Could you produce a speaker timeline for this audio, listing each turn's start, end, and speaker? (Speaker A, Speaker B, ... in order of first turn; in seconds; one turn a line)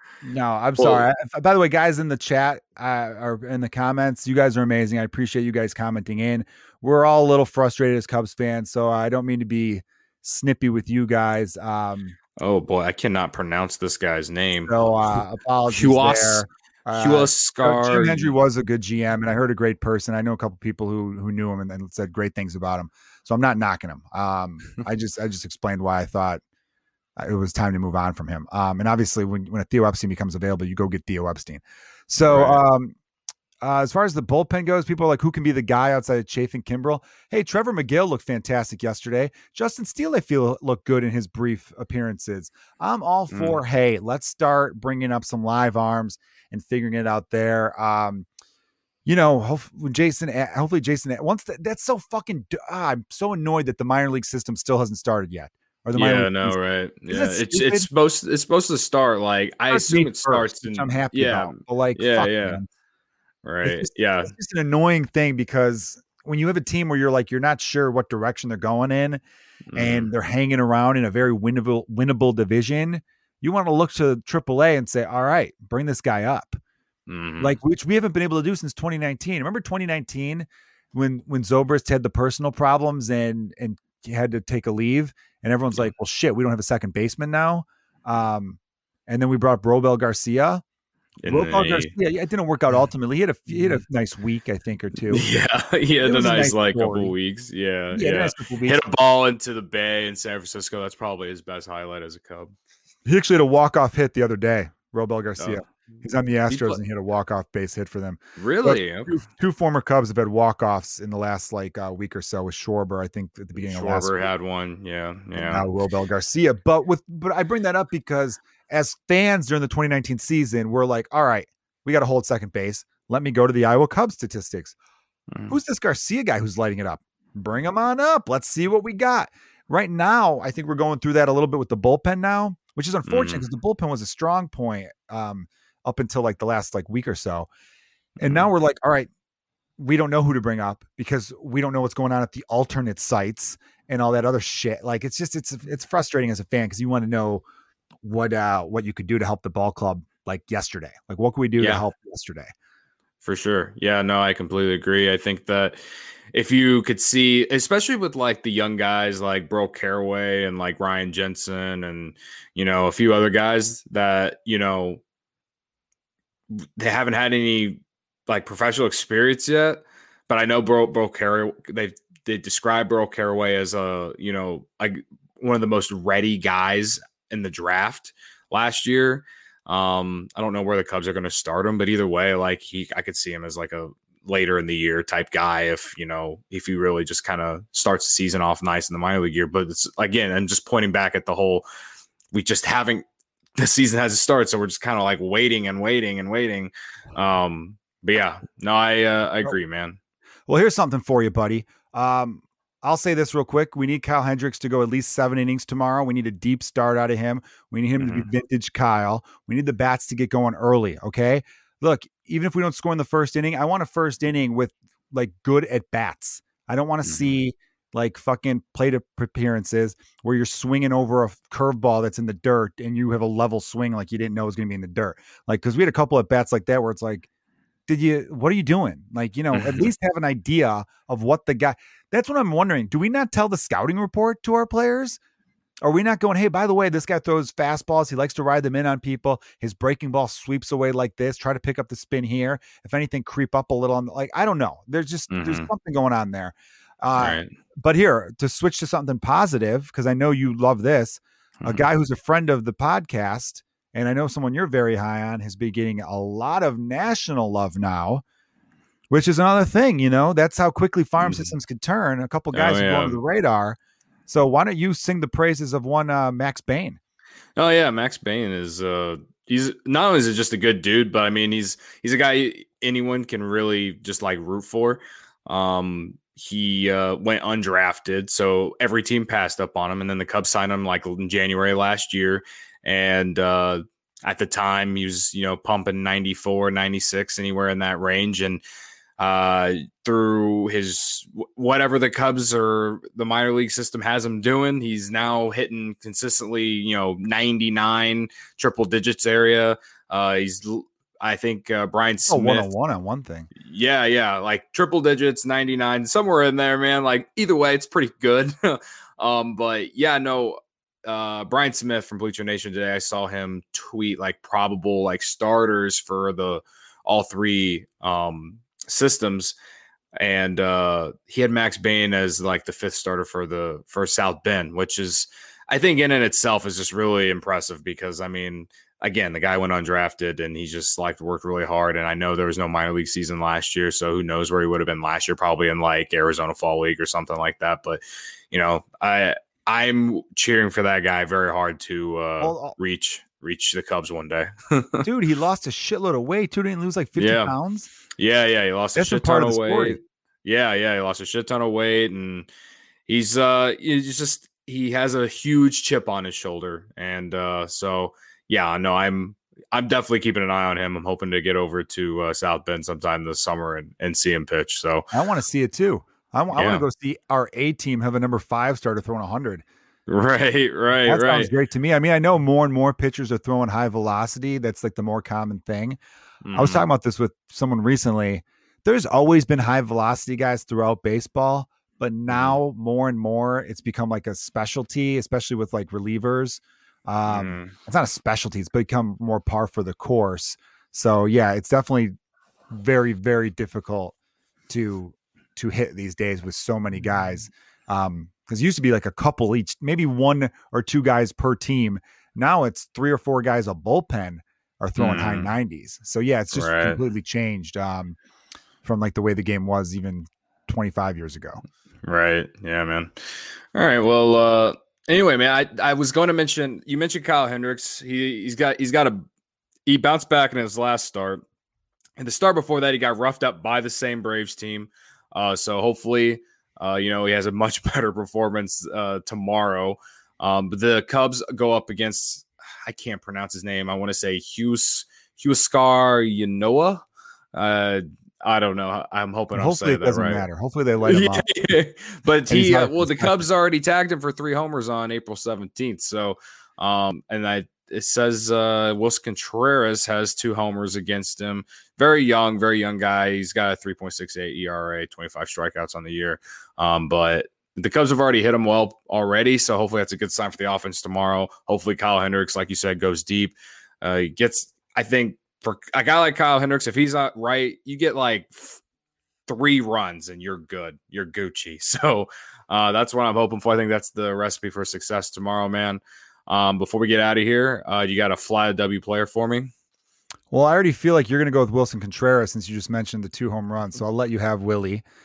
Speaker A: 0.2-12.2
Speaker B: 0.8-1.0
Speaker B: 12.4-14.8
Speaker A: 14.7-26.4
Speaker B: 15.7-18.3
Speaker A: 27.1-33.0
Speaker B: 32.2-32.6
Speaker A: 33.6-48.3
Speaker B: 43.3-43.6
Speaker A: 49.0-56.6
Speaker B: 55.9-62.6
Speaker A: 57.1-57.9
Speaker A: 59.7-62.6
Speaker B: 63.4-64.3
Speaker A: 63.6-69.2
Speaker B: 69.7-70.1
Speaker A: 69.7-76.6
Speaker B: 77.1-77.6
Speaker A: 77.4-90.6
Speaker B: 91.2-91.9
Speaker A: 91.2-95.2
Speaker B: 93.5-93.8
Speaker B: 95.1-102.5
Speaker A: 96.0-97.1
Speaker A: 97.9-98.9
Speaker A: 103.0-114.2
Speaker B: 105.4-105.7
Speaker B: 106.5-106.8
Speaker B: 108.4-109.2
Speaker B: 113.5-115.7
Speaker A: 115.3-124.8
Speaker B: 125.3-125.5
Speaker A: 125.5-137.5
Speaker B: 133.1-133.4
Speaker B: 138.2-138.5
Speaker A: 138.2-139.1
Speaker A: 139.8-147.4
Speaker A: 148.0-152.5
Speaker B: 151.6-151.8
Speaker B: 153.2-155.8
Speaker B: 156.3-165.0
Speaker B: 166.5-191.6
Speaker B: 192.3-193.1
Speaker B: 193.6-200.0
Speaker A: 200.5-227.3
Speaker B: 208.0-208.3
Speaker B: 217.0-217.4
Speaker A: 227.9-235.2
Speaker B: 229.5-229.9
Speaker A: 235.8-258.2
Speaker B: 245.3-245.7
Speaker B: 247.2-247.5
Speaker A: 259.1-267.0
Speaker B: 261.2-261.5
Speaker B: 262.5-263.2
Speaker B: 267.6-288.6
Speaker B: 289.2-302.7
Speaker A: 302.3-303.5
Speaker B: 303.6-319.6
Speaker B: 320.2-345.1
Speaker A: 342.4-342.7
Speaker A: 345.0-347.9
Speaker B: 347.1-347.5
Speaker B: 348.2-352.5
Speaker A: 348.9-350.0
Speaker B: 353.1-365.1
Speaker A: 365.1-369.6
Speaker B: 366.5-366.8
Speaker B: 370.1-371.5
Speaker A: 371.1-376.0
Speaker B: 376.4-376.8
Speaker A: 376.5-392.1
Speaker B: 382.3-382.6
Speaker B: 387.3-387.7
Speaker A: 392.7-394.1
Speaker A: 394.7-408.2
Speaker B: 405.0-405.5
Speaker B: 406.5-407.0
Speaker A: 408.8-411.6
Speaker B: 412.0-419.2
Speaker B: 419.9-421.4
Speaker B: 422.2-440.4
Speaker A: 439.5-441.4
Speaker B: 441.0-468.8
Speaker A: 442.5-443.4
Speaker B: 469.5-479.7
Speaker A: 480.5-485.0